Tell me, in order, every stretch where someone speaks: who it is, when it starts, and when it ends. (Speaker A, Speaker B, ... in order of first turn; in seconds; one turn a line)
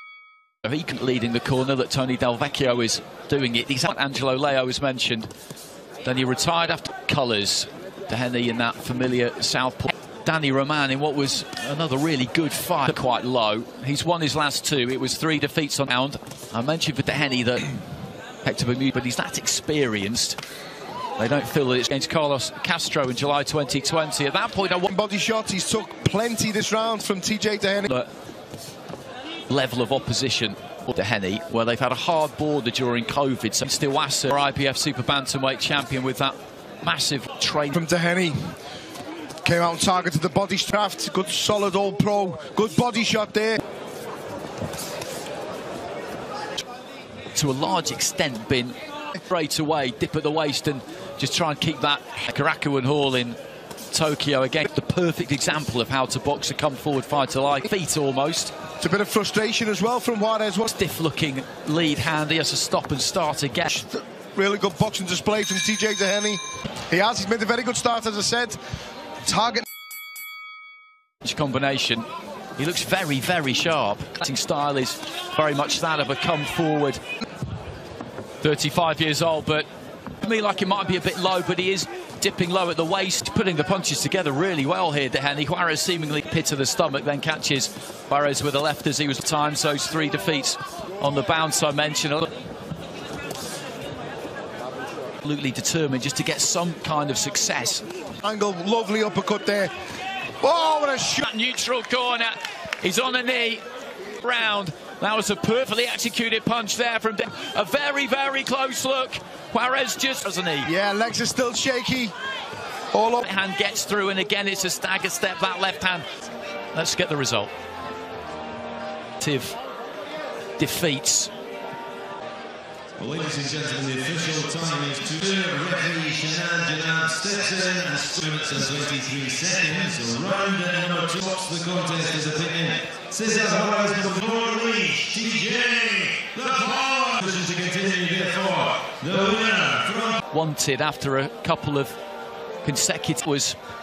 Speaker A: 0.6-5.3
Speaker A: 6.0-17.8
Speaker A: 18.4-20.4
Speaker A: 21.2-24.9
Speaker B: 24.9-27.9
Speaker A: 29.5-37.8
Speaker B: 37.7-38.5
Speaker B: 39.4-43.6
Speaker A: 47.3-48.7
Speaker A: 49.3-53.4
Speaker A: 53.9-58.5
Speaker B: 58.8-60.7
Speaker A: 60.7-63.7
Speaker B: 63.7-68.6
Speaker B: 69.2-69.7
Speaker A: 71.2-72.0
Speaker A: 72.6-77.0
Speaker A: 78.4-79.7
Speaker A: 80.2-92.3
Speaker A: 95.2-97.8
Speaker B: 98.2-99.7
Speaker B: 100.4-101.2
Speaker A: 101.2-103.6
Speaker A: 104.2-110.7
Speaker B: 110.6-112.1
Speaker B: 112.9-113.2
Speaker A: 113.2-116.0
Speaker A: 116.7-117.5
Speaker A: 119.2-119.6
Speaker A: 120.6-121.3
Speaker C: 123.0-140.2
Speaker A: 140.3-141.9
Speaker A: 142.6-143.6